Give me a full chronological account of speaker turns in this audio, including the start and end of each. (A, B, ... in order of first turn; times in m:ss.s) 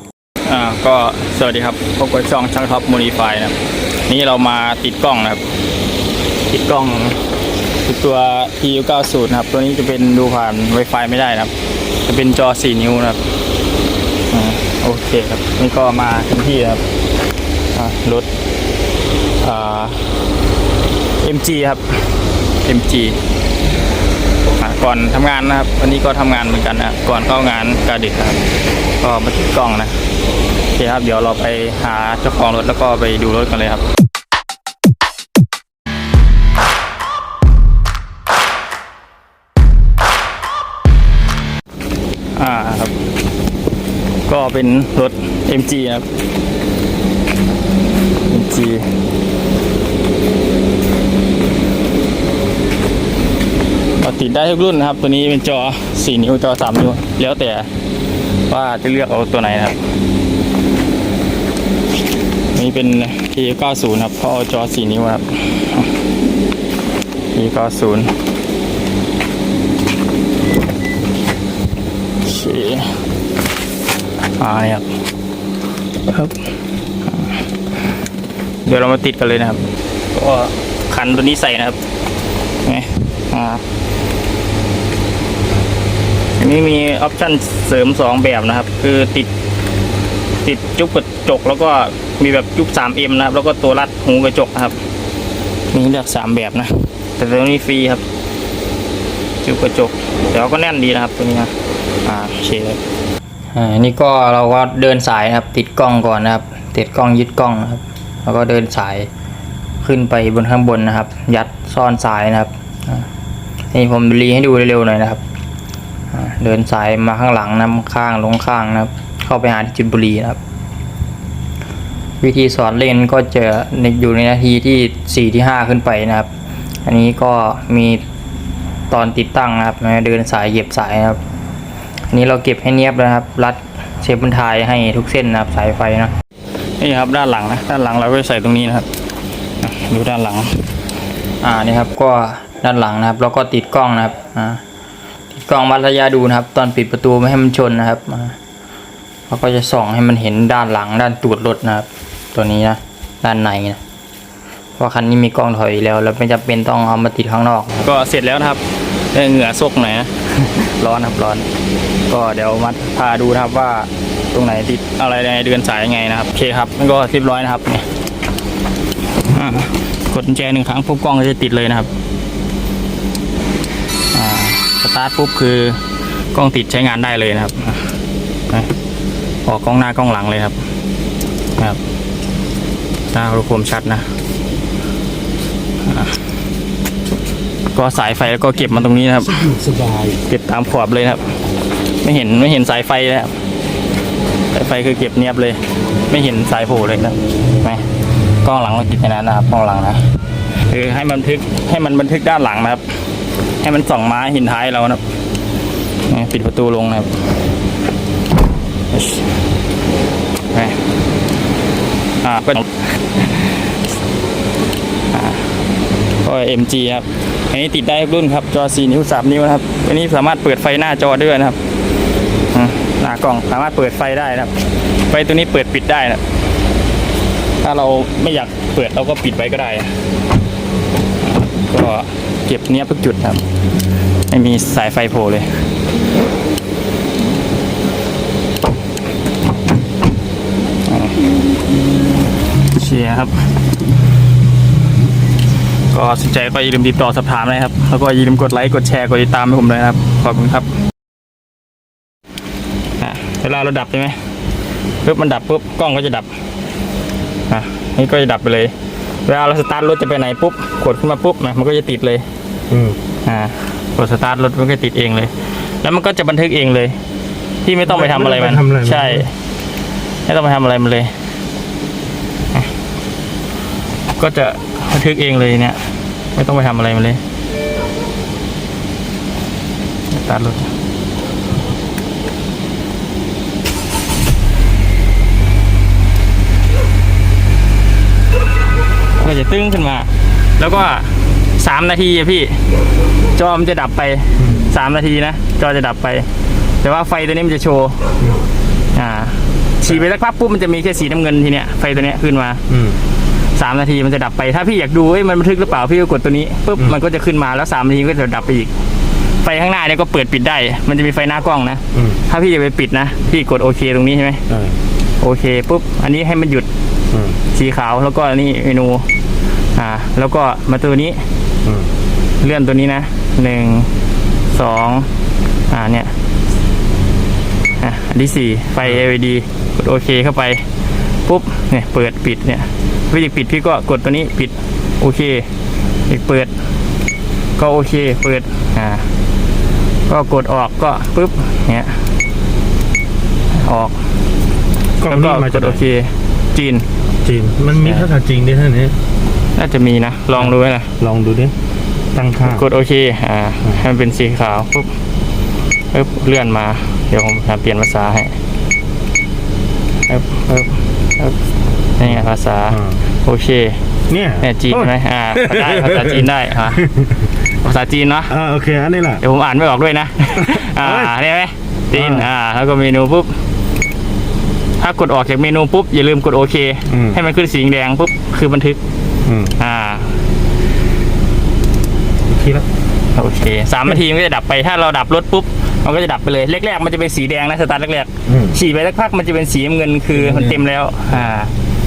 0:00.4-0:03.6 A
0:04.1-0:05.4 A
0:06.5-0:07.2 A
0:07.8-0:11.5 A
0:12.0-0:13.2 A
0:14.3-0:16.8 A
0:17.7-0:18.3 A
0:19.4-0:20.2 A
0:21.2-0:23.2 A
0:24.6-0:28.4 A
0:29.0-0:30.0 A
0:30.7-0:33.8 A
0:42.3-0:43.0 A
0:44.2-0:46.1 A
0:48.3-0:48.9 A
0:54.0-0:57.7 A
0:58.5-0:59.8 A
1:02.5-1:05.9 A
1:07.3-1:08.1 A
1:12.2-1:13.0 A
1:14.4-1:14.9 A
1:16.1-1:16.4 A
1:18.6-1:21.8 A
1:22.6-1:23.6 A
1:26.4-1:29.3 A
1:30.4-1:34.8 A
1:35.7-1:38.0 A
1:39.4-1:41.5 A
1:42.0-1:42.8 A
1:43.5-1:49.1 B
1:49.8-1:53.0 B
1:53.7-1:55.2 B
1:56.1-2:00.4 B
2:02.2-2:06.3 B
2:06.8-2:08.0 B
2:08.9-2:11.2 B
2:12.1-2:16.1 B
2:16.8-2:18.9 A
2:19.6-2:20.7 A
2:21.4-2:24.6 B
2:25.3-2:28.4 B
2:29.3-2:33.8 B
2:34.8-2:37.9 B
2:37.8-2:41.5 A
2:42.1-2:47.8 A
2:49.2-2:51.9 A
2:54.1-2:55.8 A
2:56.3-2:57.9 A
2:59.4-3:00.6 A
3:03.1-3:04.1 A
3:05.9-3:06.2 A
3:07.7-3:11.2 A
3:12.0-3:13.3 A
3:14.5-3:17.8 A
3:18.4-3:20.1 A
3:20.7-3:23.0 A
3:23.6-3:25.0 A
3:26.1-3:27.2 A
3:28.9-3:29.2 A
3:30.5-3:30.8 A
3:32.2-3:33.7 A
3:35.1-3:35.5 A
3:36.2-3:41.6 A
3:42.5-3:46.2 A
3:47.6-3:49.9 A
3:51.2-3:53.4 A
3:54.3-3:55.7 A
4:00.9-4:01.2 A
4:02.7-4:03.4 A
4:05.9-4:10.7 A
4:13.0-4:14.2 A
4:15.0-4:16.3 A
4:17.5-4:18.7 A
4:19.2-4:22.2 A
4:22.7-4:23.0 C
4:23.2-4:27.0 A
4:27.6-4:29.3 A
4:27.9-4:29.2 C
4:30.2-4:31.1 A
4:34.2-4:37.2 A
4:40.1-4:40.7 A
4:49.2-4:52.7 A
4:53.3-4:56.3 A
4:54.4-4:54.7 C
4:56.8-4:58.0 A
4:58.2-4:58.5 C
4:58.9-5:02.6 A
5:02.7-5:03.0 C
5:03.5-5:08.7 A
5:09.4-5:14.4 A
5:11.9-5:12.2 C
5:14.5-5:14.8 C
5:15.2-5:16.7 A
5:17.1-5:17.4 C
5:17.5-5:19.1 A
5:19.7-5:21.2 A
5:21.6-5:21.9 C
5:22.4-5:23.9 A
5:24.5-5:25.1 A
5:25.7-5:26.1 A
5:27.8-5:30.6 A
5:31.2-5:35.5 A
5:36.1-5:36.5 A
5:37.6-5:39.0 A
5:40.1-5:42.0 A
5:43.5-5:43.9 A
5:45.0-5:45.8 C
5:45.0-5:46.8 A
5:47.2-5:49.0 C
5:47.8-5:48.1 A
5:49.6-5:50.9 A
5:50.4-5:51.5 C
5:52.1-5:52.6 C
5:52.4-5:54.9 A
5:55.9-5:58.3 A
6:00.1-6:01.4 A
6:02.0-6:03.8 A
6:02.7-6:03.0 C
6:04.1-6:07.0 C
6:04.4-6:06.8 A
6:07.6-6:08.3 A
6:08.3-6:09.2 C
6:09.2-6:13.3 A
6:10.5-6:11.1 C
6:11.9-6:12.3 C
6:14.8-6:18.8 A
6:16.9-6:17.2 C
6:19.2-6:19.5 C
6:19.6-6:20.1 A
6:22.3-6:22.7 C
6:23.1-6:31.5 A
6:28.3-6:28.6 C
6:30.2-6:30.6 C